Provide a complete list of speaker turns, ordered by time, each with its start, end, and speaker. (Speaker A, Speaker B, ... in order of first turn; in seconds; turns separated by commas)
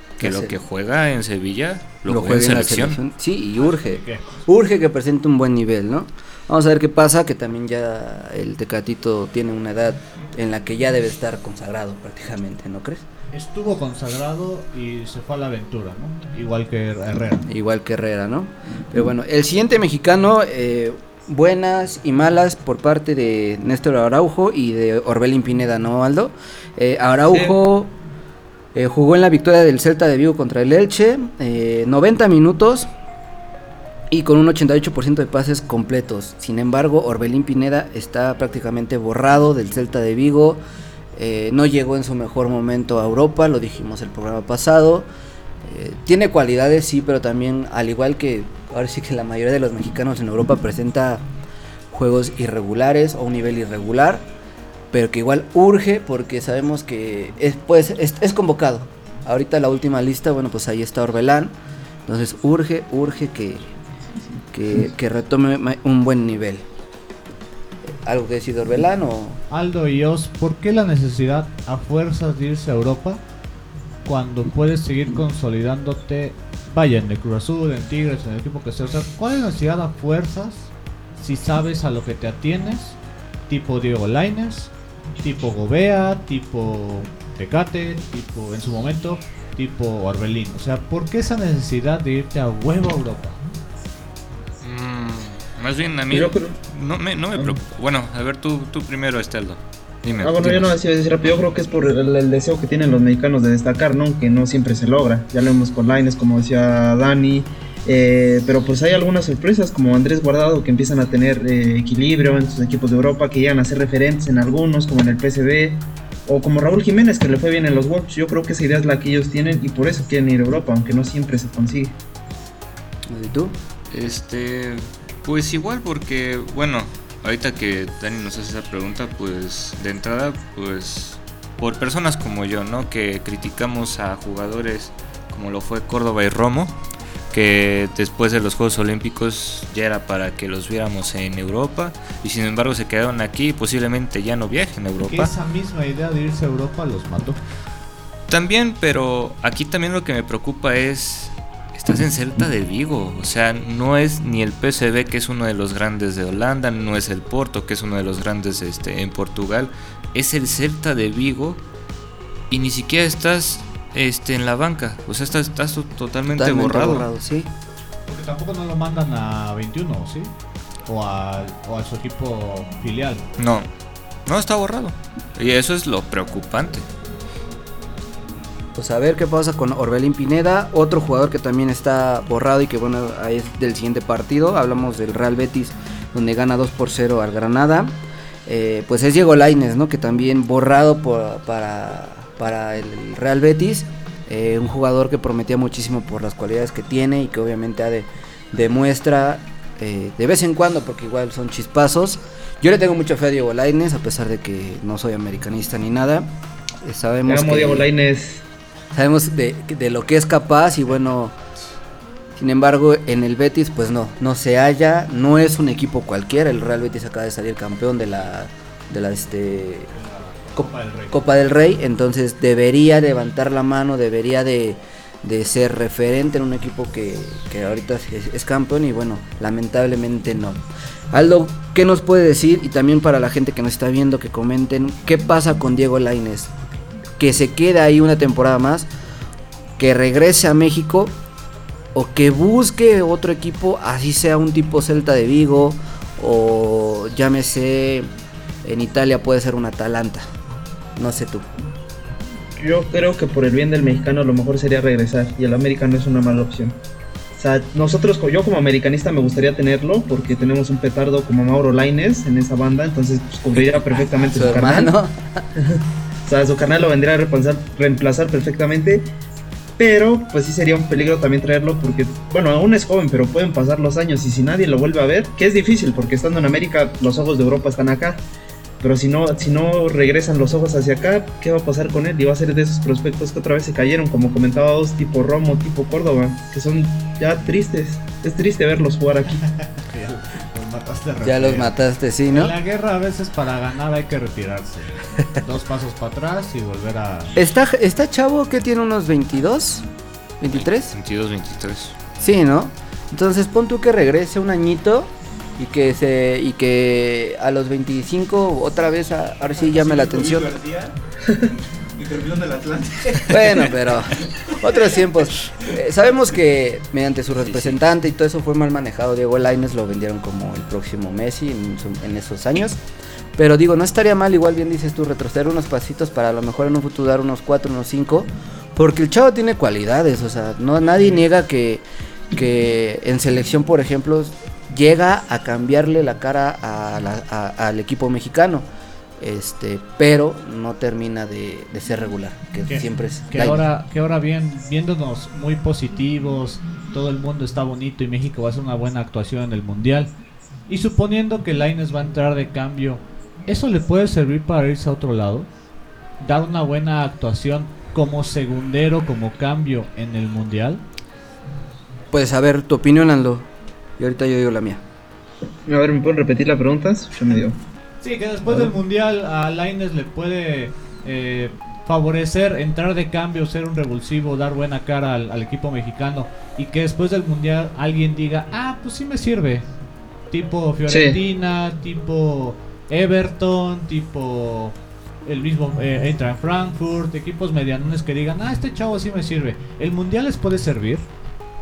Speaker A: 0.2-0.6, Speaker B: 0.2-3.0, Speaker A: 2.1-13.1, Speaker C: 3.6-4.5, Speaker C: 13.3-17.5, Speaker A: 17.5-27.9, Speaker A: 28.8-32.9, Speaker A: 34.1-40.6, Speaker A: 41.1-45.1, Speaker A: 45.6-51.2, Speaker A: 51.9-54.2, Speaker A: 54.9-61.5, Speaker A: 62.1-63.7, Speaker A: 64.5-66.7, Speaker A: 68.0-69.4, Speaker C: 69.5-73.2, Speaker C: 74.1-83.0, Speaker C: 83.5-84.7, Speaker C: 85.2-93.4, Speaker B: 94.6-100.8, Speaker D: 96.1-96.6, Speaker D: 100.2-122.0, Speaker A: 123.1-123.5, Speaker B: 123.9-136.8, Speaker B: 137.3-145.3, Speaker C: 145.1-147.4, Speaker B: 148.3-161.6, Speaker B: 162.5-167.1, Speaker A: 166.3-167.5, Speaker C: 168.1-170.3, Speaker C: 170.9-173.3, Speaker B: 173.4-173.7, Speaker B: 174.3-176.8, Speaker A: 178.8-187.9, Speaker A: 188.5-206.3, Speaker A: 206.8-207.9, Speaker D: 207.3-208.4, Speaker A: 208.9-211.3, Speaker A: 212.4-219.9, Speaker C: 219.9-221.2, Speaker A: 221.1-236.5, Speaker A: 237.2-238.9, Speaker A: 239.8-241.2, Speaker A: 241.9-248.1, Speaker A: 248.6-250.3, Speaker A: 251.0-251.5, Speaker D: 252.6-256.8, Speaker D: 257.4-264.9, Speaker A: 263.6-265.5, Speaker D: 266.2-269.1, Speaker D: 269.8-278.2, Speaker D: 278.8-289.4, Speaker C: 289.4-291.7, Speaker A: 291.2-292.6, Speaker C: 292.3-297.3, Speaker A: 297.4-299.9, Speaker A: 300.4-300.9, Speaker B: 300.5-302.0, Speaker A: 302.2-310.5, Speaker E: 309.6-313.7, Speaker A: 313.3-322.8, Speaker B: 317.5-317.8, Speaker A: 323.4-338.7, Speaker A: 339.2-343.7, Speaker C: 342.7-350.1, Speaker C: 350.7-355.5, Speaker C: 356.2-360.8, Speaker A: 362.1-363.5, Speaker A: 364.0-364.8, Speaker D: 365.7-367.6, Speaker C: 368.0-379.7, Speaker C: 380.3-391.1, Speaker D: 380.9-381.2